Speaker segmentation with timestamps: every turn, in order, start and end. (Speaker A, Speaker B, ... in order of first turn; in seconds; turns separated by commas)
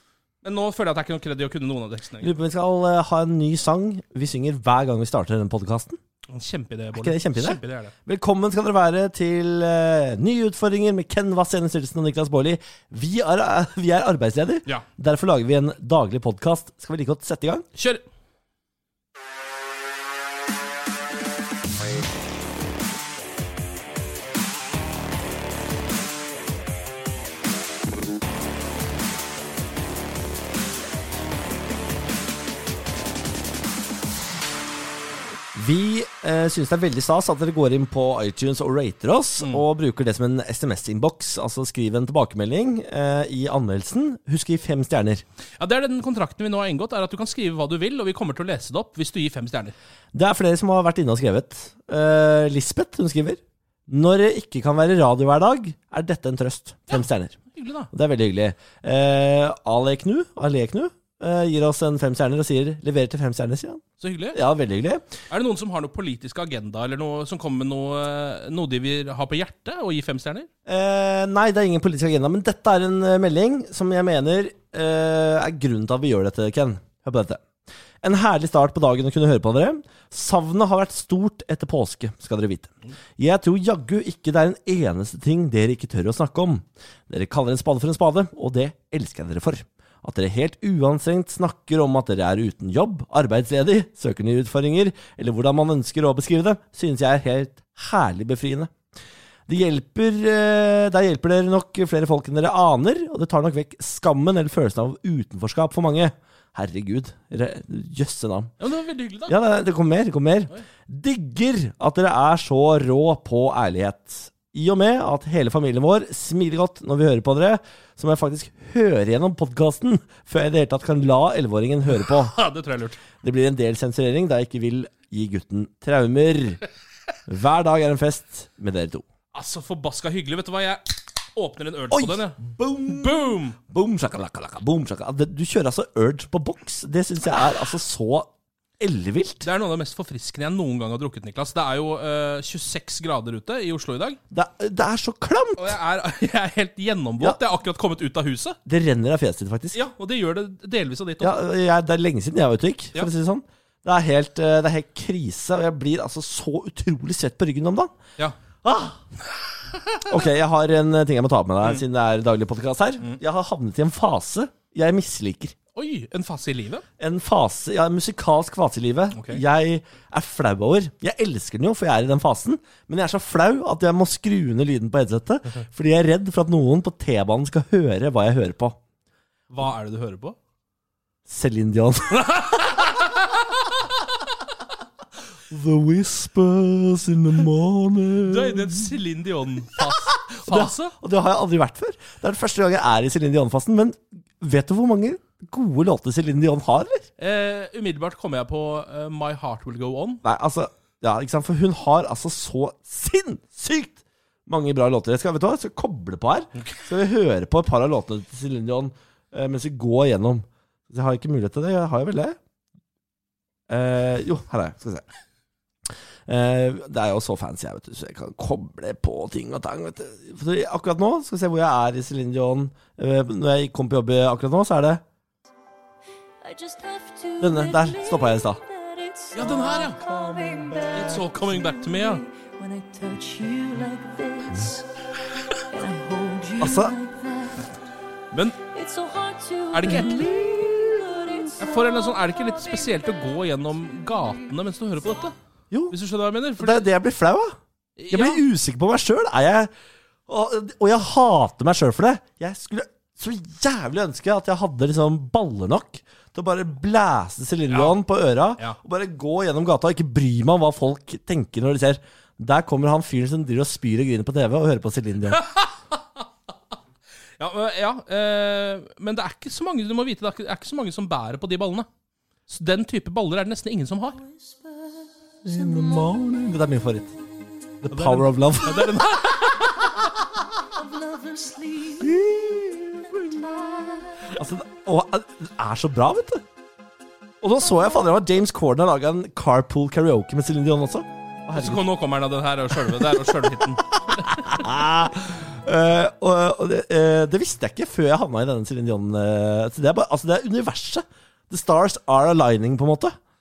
Speaker A: 0.4-2.3, Speaker B: 2.2-6.0, Speaker A: 6.3-7.9, Speaker B: 6.9-17.7, Speaker A: 17.8-18.0, Speaker B: 35.5-45.2, Speaker A: 45.6-49.7, Speaker B: 50.1-57.4, Speaker A: 56.9-57.9, Speaker B: 57.9-63.8, Speaker A: 64.0-64.4, Speaker B: 64.3-65.1, Speaker A: 65.3-70.5, Speaker B: 70.7-77.4, Speaker B: 78.0-98.7, Speaker B: 99.5-108.5, Speaker A: 108.6-109.3, Speaker B: 109.3-122.3, Speaker A: 121.9-123.0, Speaker B: 123.2-126.6, Speaker B: 127.3-129.0, Speaker A: 129.3-133.6, Speaker B: 131.9-139.5, Speaker A: 139.4-144.2, Speaker B: 144.3-145.8, Speaker A: 145.6-148.6, Speaker B: 148.7-149.8, Speaker A: 149.7-151.4, Speaker B: 151.2-157.9, Speaker B: 158.6-159.0, Speaker A: 159.7-160.2, Speaker B: 160.0-165.5, Speaker A: 165.7-166.8, Speaker B: 167.0-178.8, Speaker A: 169.1-169.4, Speaker A: 179.5-180.4, Speaker B: 181.3-182.9, Speaker A: 182.4-183.6, Speaker B: 185.5-188.9, Speaker A: 188.3-190.9, Speaker B: 189.7-197.1, Speaker A: 197.2-200.2, Speaker B: 200.2-212.4, Speaker B: 213.7-215.1, Speaker B: 216.3-225.0, Speaker C: 226.4-234.9, Speaker B: 227.4-228.6, Speaker A: 229.3-230.0, Speaker A: 230.9-232.2, Speaker C: 235.7-237.7, Speaker B: 236.6-237.0, Speaker A: 238.3-238.6, Speaker C: 238.7-241.6, Speaker A: 239.7-240.4, Speaker B: 240.3-240.8, Speaker A: 241.6-245.3, Speaker A: 245.9-246.9, Speaker B: 246.6-247.5, Speaker A: 248.0-248.4, Speaker B: 248.1-249.7, Speaker B: 250.3-265.4, Speaker A: 257.7-257.9, Speaker A: 265.3-266.2, Speaker A: 267.4-271.9, Speaker A: 272.5-274.2, Speaker C: 274.4-275.1, Speaker B: 275.4-277.1, Speaker C: 275.7-276.1, Speaker B: 277.8-279.1, Speaker A: 277.9-280.0, Speaker C: 280.2-282.3, Speaker B: 282.0-286.4, Speaker C: 283.0-284.4, Speaker B: 287.4-291.8, Speaker A: 291.5-294.3, Speaker B: 292.8-303.1